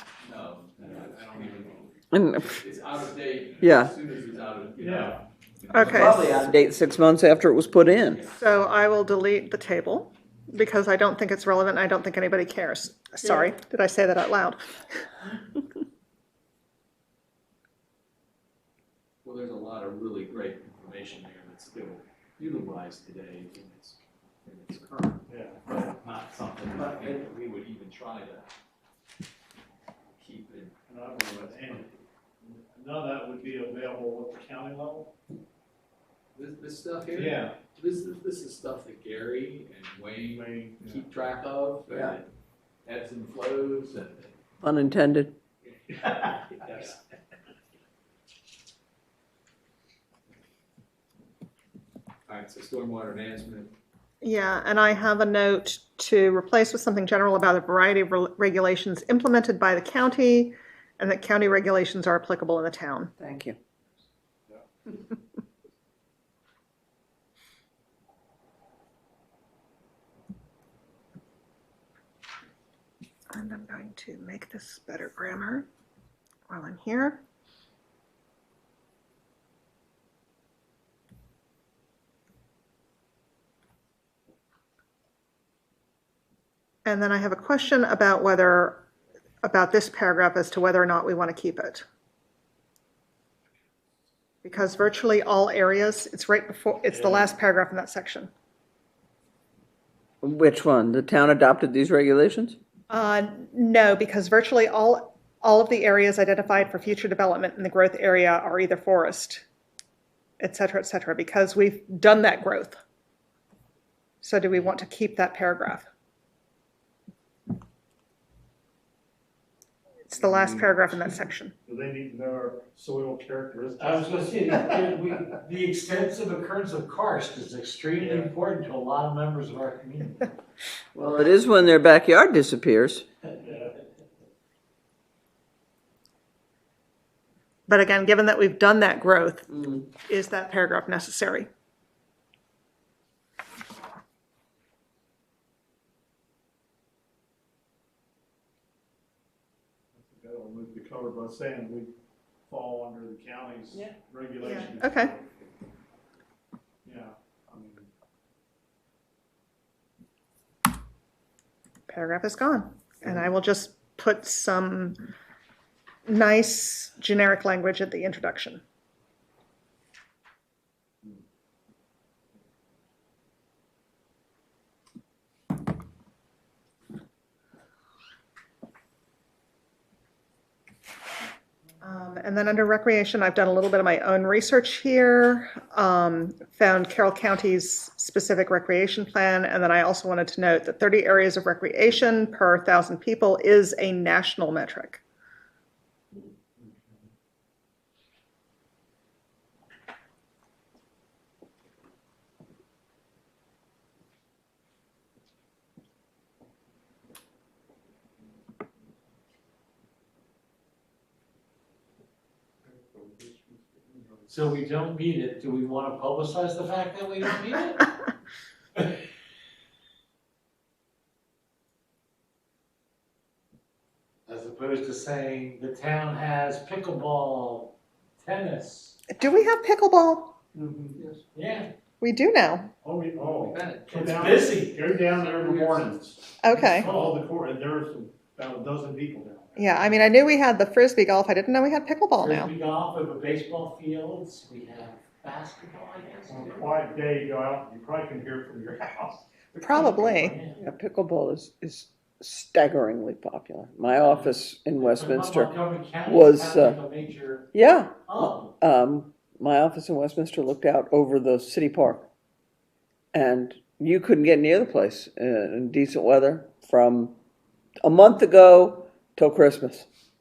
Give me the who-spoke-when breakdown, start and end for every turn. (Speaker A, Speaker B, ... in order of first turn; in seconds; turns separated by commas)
Speaker A: 0.2-6.4, Speaker B: 2.1-2.6, Speaker B: 3.6-3.9, Speaker C: 4.8-5.2, Speaker D: 5.7-6.2, Speaker B: 5.8-8.2, Speaker A: 8.1-8.4, Speaker D: 8.3-14.6, Speaker A: 19.2-28.5, Speaker C: 25.3-25.6, Speaker A: 30.2-30.7, Speaker C: 30.9-31.9, Speaker A: 31.4-31.9, Speaker C: 32.4-35.1, Speaker A: 36.3-42.3, Speaker C: 37.1-37.5, Speaker C: 40.2-41.0, Speaker B: 41.9-42.1, Speaker A: 42.8-44.4, Speaker B: 44.6-45.4, Speaker A: 45.6-47.0, Speaker C: 46.3-46.8, Speaker A: 52.3-53.7, Speaker D: 54.2-63.1, Speaker B: 63.2-63.6, Speaker D: 73.3-75.7, Speaker D: 76.5-77.2, Speaker D: 86.8-88.8, Speaker D: 89.4-91.8, Speaker D: 94.4-98.3, Speaker C: 96.9-97.3, Speaker B: 100.2-102.6, Speaker D: 102.9-109.4, Speaker D: 110.4-112.8, Speaker D: 114.2-115.9, Speaker D: 120.0-121.5, Speaker C: 120.2-124.8, Speaker E: 123.8-130.3, Speaker C: 128.0-128.3, Speaker B: 130.9-133.0, Speaker C: 133.4-133.7, Speaker D: 137.7-141.5, Speaker C: 149.9-151.9, Speaker C: 152.5-155.3, Speaker D: 154.4-155.1, Speaker C: 156.8-157.9, Speaker D: 161.9-165.0, Speaker D: 166.1-168.6, Speaker D: 181.8-195.0, Speaker C: 212.6-214.6, Speaker E: 214.3-217.9, Speaker E: 224.2-228.9, Speaker D: 229.1-230.4, Speaker C: 230.5-231.0, Speaker A: 230.9-231.2, Speaker E: 231.3-231.7, Speaker D: 232.0-232.7, Speaker C: 232.8-239.9, Speaker A: 233.4-234.2, Speaker E: 233.9-235.9, Speaker D: 236.4-236.9, Speaker E: 236.4-237.2, Speaker D: 239.6-242.5, Speaker E: 242.2-246.7, Speaker C: 246.3-249.7, Speaker D: 249.6-250.4, Speaker E: 249.7-250.6, Speaker B: 250.6-256.8, Speaker E: 253.9-257.5, Speaker B: 257.5-262.1, Speaker E: 258.1-258.5, Speaker B: 263.1-267.1, Speaker B: 267.8-269.9